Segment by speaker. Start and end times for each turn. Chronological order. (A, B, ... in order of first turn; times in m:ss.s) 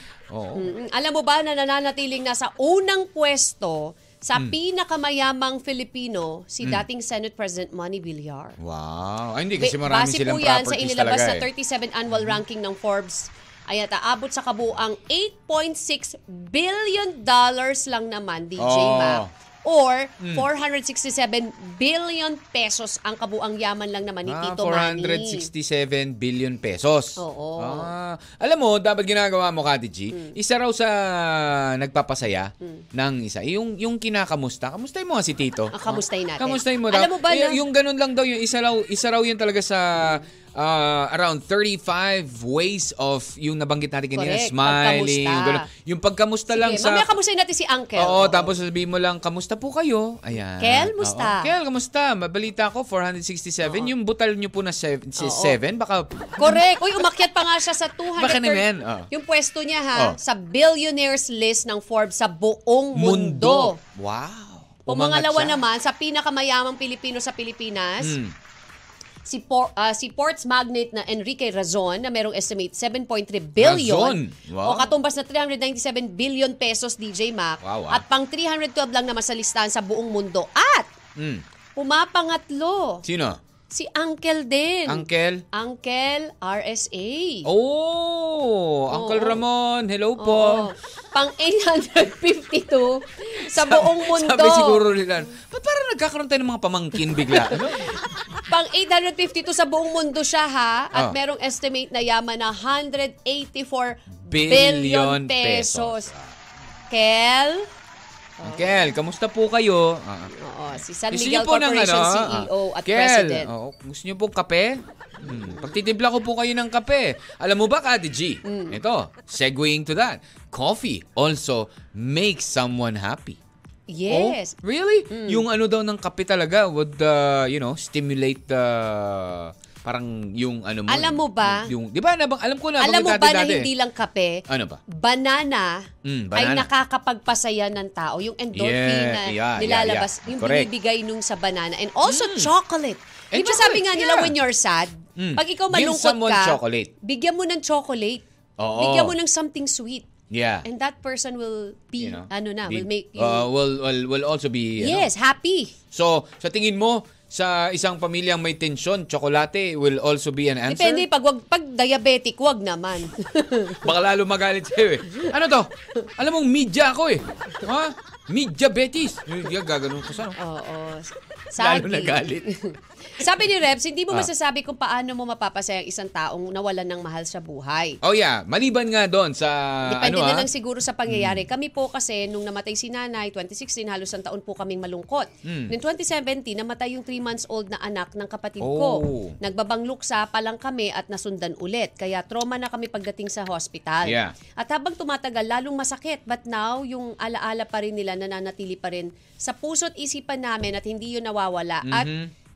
0:00.3-0:00.7 A
0:00.5-0:08.6 B
0:08.6-0:11.5 A
0:09.6-0:25.5 B
0:12.1-0:12.4 A
0:18.6-0:19.3 A
0:20.2-0:20.5 A
0:24.2-0:47.1 A
0:27.2-0:27.9 B
0:35.7-0:37.6 B
0:44.1-0:45.6 B
0:46.5-0:48.5 B
0:48.0-0:56.6 A
0:50.6-0:51.5 B
0:53.6-0:53.9 B
0:55.2-0:55.6 B
0:56.4-1:03.8 B
0:58.2-0:59.1 A
1:02.9-1:05.6 A
1:04.9-1:08.2 B
1:08.0-1:08.3 A
1:09.2-1:20.9 B
1:13.6-1:14.9 A
1:17.6-1:18.0 A
1:21.2-1:21.4 A
1:21.8-1:23.0 B
1:23.0-1:23.4 A
1:23.7-1:27.5 B
1:24.9-1:25.4 A
1:27.4-1:30.7 A
1:28.9-1:29.4 B
1:30.2-1:34.8 B
1:33.4-1:37.9 A
1:37.3-1:37.9 B
1:38.5-1:46.1 B
1:44.2-1:46.3 A
1:46.9-1:47.7 B
1:48.4-1:48.8 B
1:48.4-1:50.3 A
1:50.3-1:53.5 B
1:51.1-2:03.4 A
1:55.2-1:55.7 B
1:58.4-1:58.8 B
2:03.9-2:04.5 B
2:04.1-2:13.7 A
2:05.1-2:05.4 B
2:10.9-2:11.7 B
2:12.8-2:28.2 B
2:14.5-2:14.8 A
2:16.0-2:16.7 A
2:18.5-2:20.7 A
2:22.0-2:22.5 A
2:23.3-2:24.4 A
2:25.2-2:26.9 A
2:28.6-2:29.2 A
2:28.7-2:30.1 B
2:30.3-2:30.6 A
2:30.6-2:33.4 B
2:32.0-2:35.1 A
2:34.8-2:35.7 B
2:35.9-2:41.0 A
2:40.7-2:43.9 B
2:43.8-2:50.4 A
2:50.4-2:58.0 B
2:51.6-2:52.5 A
2:58.0-3:00.5 A
2:59.8-3:22.1 B
3:01.1-3:01.4 A
3:05.4-3:05.7 A
3:08.6-3:09.4 A
3:14.0-3:14.3 A
3:21.8-3:22.3 A